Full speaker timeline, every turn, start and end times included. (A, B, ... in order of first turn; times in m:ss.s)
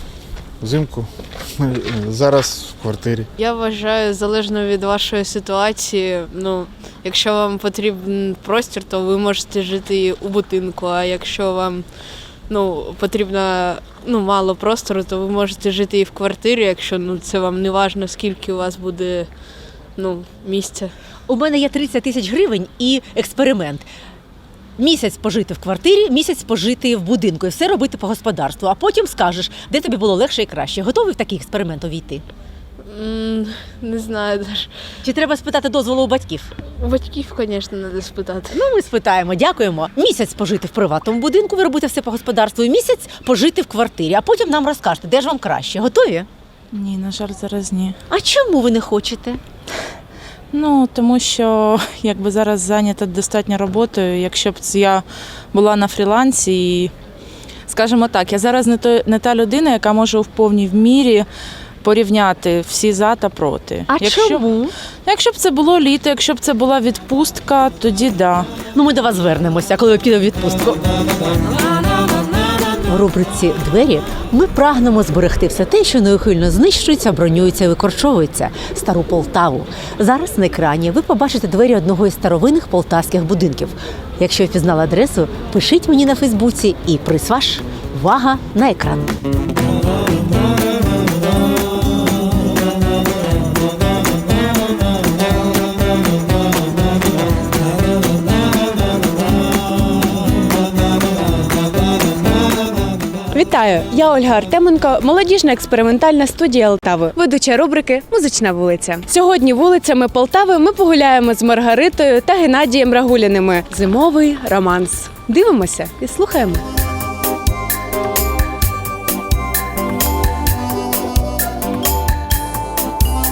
0:00.6-0:01.1 A
0:01.6-0:03.2 A
0:03.4-0:11.8 B
0:12.5-0:19.3 B
0:20.0-0:20.9 B
0:21.3-0:23.9 C
0:24.8-0:32.2 C
0:32.8-0:34.7 B
0:35.0-0:36.5 C
0:36.8-0:38.5 B
0:38.5-0:46.3 C
0:46.7-0:47.9 D
0:48.1-0:49.4 C
0:50.5-0:56.9 D
0:57.7-1:01.3 D
1:01.8-1:04.4 D
1:03.9-1:04.7 C
1:05.0-1:08.5 D
1:08.7-1:10.8 C
1:12.8-1:29.1 C
1:43.3-1:56.6 E